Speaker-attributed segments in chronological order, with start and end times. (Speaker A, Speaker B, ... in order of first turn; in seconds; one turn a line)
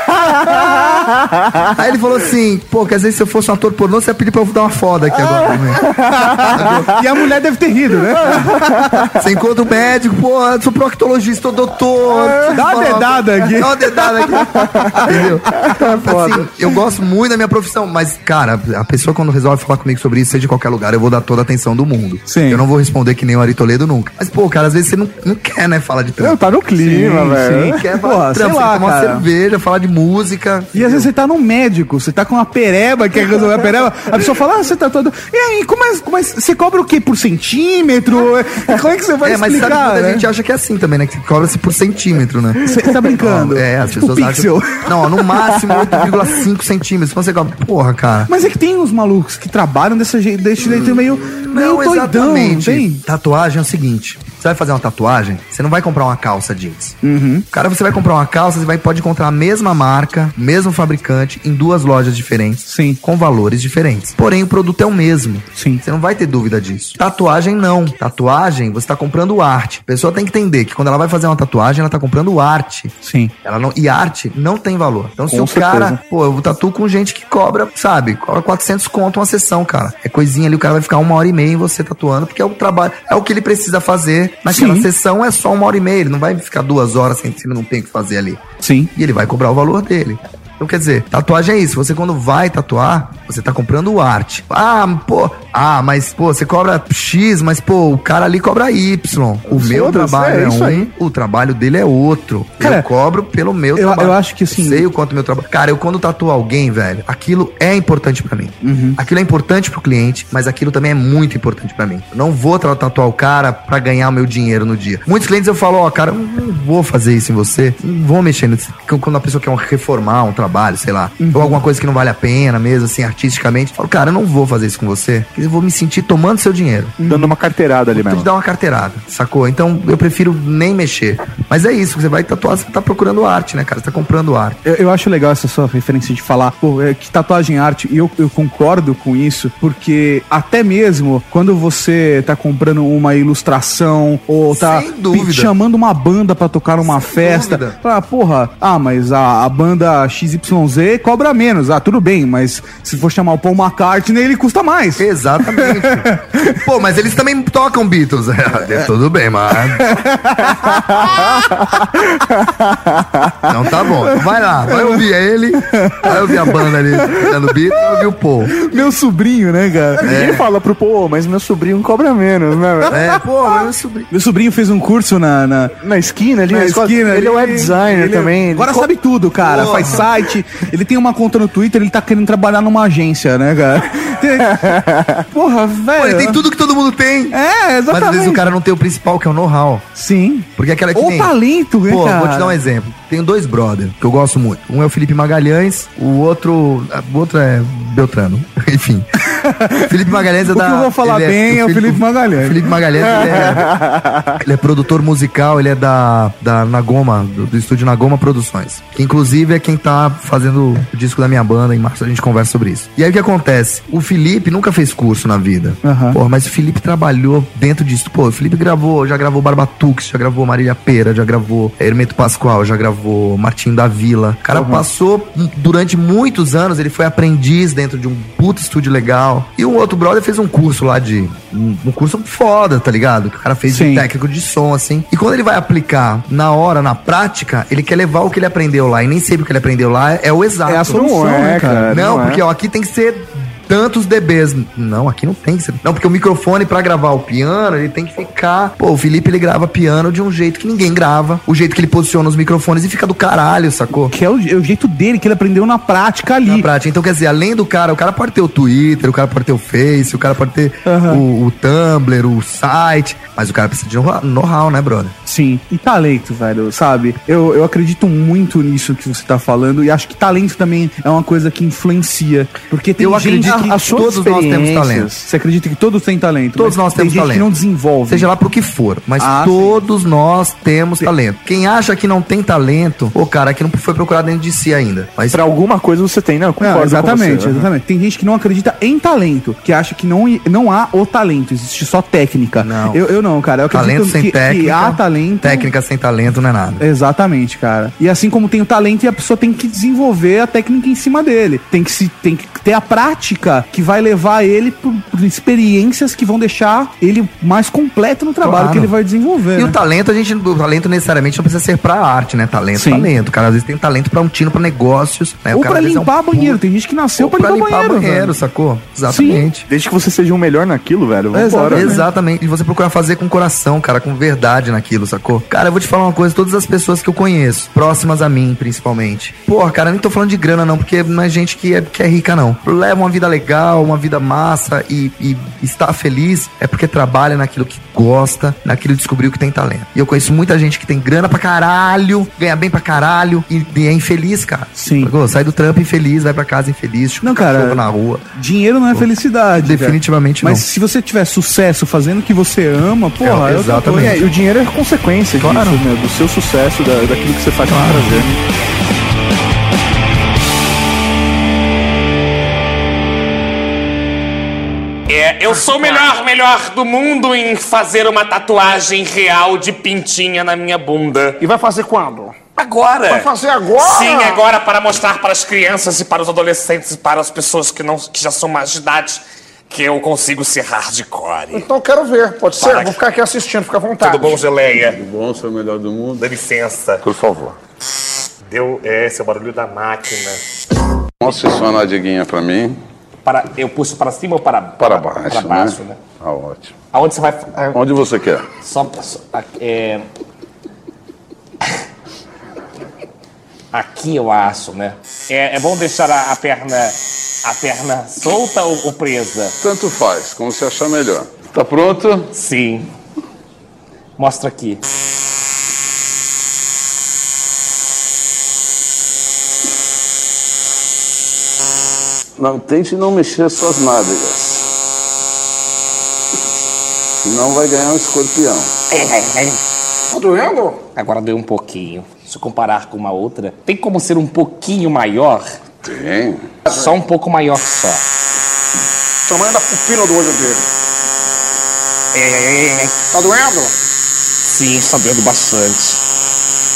Speaker A: 0.1-1.7
Speaker B: 1.7-5.9
Speaker A: 5.8-6.7
Speaker C: 6.2-9.1
Speaker B: 6.5-6.9
Speaker B: 9.2-26.4
Speaker A: 12.1-12.5
Speaker C: 12.5-15.7
Speaker A: 15.6-16.4
Speaker C: 22.3-22.6
Speaker A: 26.2-27.8
Speaker C: 26.8-29.2
Speaker B: 27.8-31.1
Speaker C: 30.7-40.3
Speaker B: 39.2-48.3
Speaker C: 42.7-45.3
Speaker C: 48.3-53.0
Speaker B: 50.6-57.0
Speaker C: 57.0-57.5
Speaker B: 57.5-88.4
Speaker C: 62.7-63.0
Speaker C: 65.6-65.8
Speaker C: 73.0-73.3
Speaker A: 75.3-76.0
Speaker C: 84.5-84.9
Speaker C: 88.6-88.9
Speaker B: 89.0-127.0
Speaker A: 99.5-100.9
Speaker C: 102.6-102.9
Speaker C: 103.8-104.8
Speaker C: 108.6-109.0
Speaker C: 121.2-121.6
Speaker C: 127.0-127.3
Speaker A: 127.0-128.3
Speaker B: 127.9-134.6
Speaker C: 134.7-156.5
Speaker B: 144.5-145.5
Speaker B: 146.8-147.8
Speaker B: 155.0-160.0
Speaker C: 159.9-161.2
Speaker A: 161.1-163.4
Speaker B: 163.5-168.6
Speaker C: 164.7-165.0
Speaker C: 165.8-167.3
Speaker C: 168.6-170.1
Speaker A: 170.0-173.0
Speaker B: 170.0-170.5
Speaker C: 172.8-173.2
Speaker B: 172.9-174.1
Speaker C: 174.1-175.8
Speaker A: 175.8-178.9
Speaker C: 176.5-186.4
Speaker B: 179.4-180.1
Speaker A: 184.5-185.2
Speaker B: 186.0-187.4
Speaker C: 187.3-188.4
Speaker B: 187.9-189.9
Speaker C: 189.9-192.6
Speaker B: 190.6-199.1
Speaker C: 199.3-199.9
Speaker B: 199.8-203.7
Speaker C: 200.5-202.6
Speaker A: 203.1-204.3
Speaker B: 204.4-241.0
Speaker C: 215.8-216.2
Speaker C: 224.6-224.8
Speaker C: 233.7-234.1
Speaker C: 240.7-241.9
Speaker A: 240.8-242.4
Speaker B: 241.9-254.1
Speaker C: 254.1-256.7
Speaker B: 256.5-265.2
Speaker C: 260.9-261.2
Speaker C: 265.3-273.9
Speaker B: 273.0-275.1
Speaker A: 273.4-275.3
Speaker C: 275.2-278.3
Speaker B: 276.6-277.5
Speaker B: 278.1-285.4
Speaker C: 279.2-279.8
Speaker A: 285.3-287.7
Speaker C: 286.6-295.7
Speaker B: 292.6-293.0
Speaker B: 293.7-296.8
Speaker C: 296.8-309.8
Speaker B: 308.4-308.9
Speaker B: 309.5-316.6
Speaker C: 312.8-313.1
Speaker C: 315.5-318.4
Speaker B: 317.2-319.7
Speaker C: 319.1-319.5
Speaker A: 319.7-321.9
Speaker C: 321.3-322.0
Speaker B: 321.7-348.3
Speaker C: 344.8-345.1
Speaker C: 347.2-347.8
Speaker C: 348.4-354.2
Speaker B: 348.9-350.6
Speaker B: 353.2-354.2
Speaker A: 353.9-358.3
Speaker B: 355.4-355.8
Speaker B: 357.7-358.3
Speaker D: 365.1-371.4
Speaker E: 371.4-372.4
Speaker D: 372.6-381.7
Speaker E: 373.1-374.5
Speaker E: 381.5-384.4
Speaker D: 382.6-383.0
Speaker D: 384.0-385.0
Speaker F: 384.9-386.2
Speaker D: 386.2-387.0
Speaker F: 387.0-387.6
Speaker D: 388.5-390.4
Speaker F: 391.2-392.8
Speaker D: 393.2-396.0
Speaker F: 394.8-396.8
Speaker D: 396.9-397.8
Speaker F: 397.7-398.4
Speaker D: 398.6-400.1
Speaker D: 403.7-409.6
Speaker F: 409.6-412.3
Speaker D: 412.3-412.9
Speaker D: 414.2-414.8
Speaker F: 422.4-424.7
Speaker F: 427.2-428.7
Speaker D: 428.9-429.6
Speaker E: 430.1-430.8
Speaker D: 430.9-435.5
Speaker F: 435.8-436.4
Speaker D: 436.6-438.0
Speaker E: 439.3-440.6
Speaker D: 442.1-443.0
Speaker E: 443.1-443.7
Speaker D: 444.4-446.0